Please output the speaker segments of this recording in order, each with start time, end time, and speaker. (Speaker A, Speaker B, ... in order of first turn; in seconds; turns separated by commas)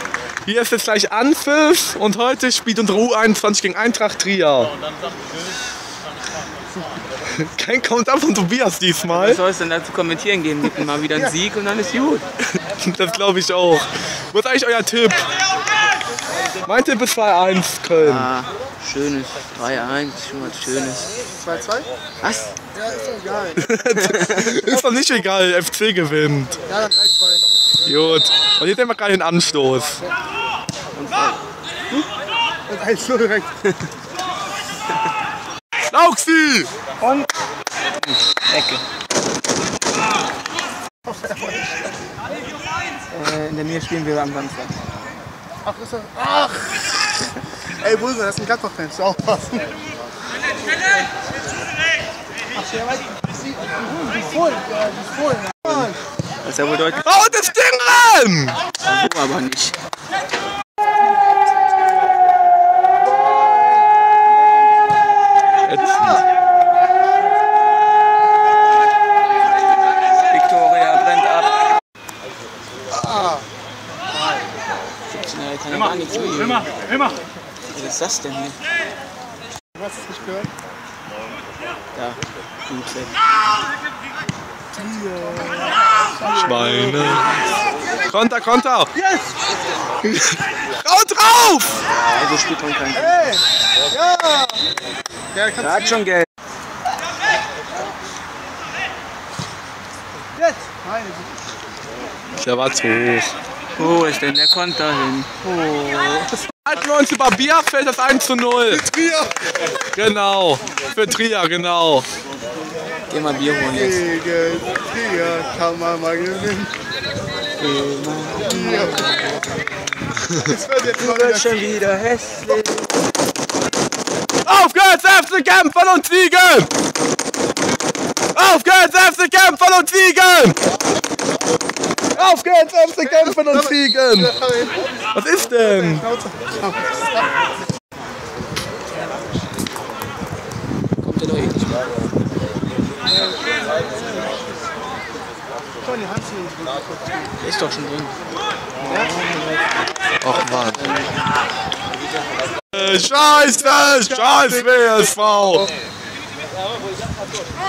Speaker A: 0.5-4.7, Speaker A: 7.4-9.4, Speaker B: 9.1-12.2, Speaker A: 12.7-15.2, Speaker A: 16.6-18.3, Speaker B: 17.9-21.1, Speaker C: 21.3-21.9, Speaker B: 22.2-22.5, Speaker C: 22.8-23.7, Speaker A: 23.6-26.6, Speaker B: 24.0-24.5, Speaker C: 24.5-24.8, Speaker C: 26.7-27.4, Speaker A: 27.9-30.0, Speaker B: 30.9-31.4, Speaker C: 32.7-33.6, Speaker A: 35.9-36.7, Speaker B: 37.0-37.3, Speaker B: 38.0-38.8, Speaker B: 43.1-44.8, Speaker C: 45.7-47.1, Speaker C: 47.8-49.7, Speaker C: 52.6-55.9, Speaker B: 55.7-57.2, Speaker A: 57.0-58.6, Speaker B: 58.8-59.8, Speaker A: 65.7-66.2, Speaker B: 70.3-71.6, Speaker C: 72.9-73.5, Speaker B: 75.1-76.7, Speaker B: 77.7-78.6, Speaker C: 79.8-80.5, Speaker B: 82.0-83.1, Speaker C: 84.7-87.3, Speaker A: 86.3-87.4, Speaker A: 88.1-88.9, Speaker C: 89.0-89.3, Speaker A: 90.8-91.7, Speaker B: 92.1-93.3, Speaker C: 93.0-94.6, Speaker C: 95.3-96.0, Speaker B: 95.6-96.3, Speaker C: 100.6-101.3, Speaker A: 102.4-103.3, Speaker B: 103.8-105.3, Speaker C: 105.4-106.5, Speaker A: 106.7-108.9, Speaker C: 108.7-109.3, Speaker A: 109.9-112.1, Speaker B: 113.1-114.0, Speaker C: 113.7-116.7, Speaker B: 117.6-119.4, Speaker C: 118.5-119.1, Speaker C: 120.4-121.5, Speaker B: 120.9-122.9, Speaker A: 124.4-126.7, Speaker A: 128.3-130.6, Speaker A: 132.1-134.3, Speaker C: 133.1-134.8, Speaker A: 135.2-136.1, Speaker C: 135.6-137.2, Speaker B: 141.0-141.8, Speaker C: 143.2-144.0, Speaker C: 145.8-147.3, Speaker B: 147.4-148.2, Speaker B: 148.8-149.7, Speaker A: 150.2-150.8, Speaker B: 150.5-151.1, Speaker A: 152.7-155.7, Speaker C: 153.9-154.7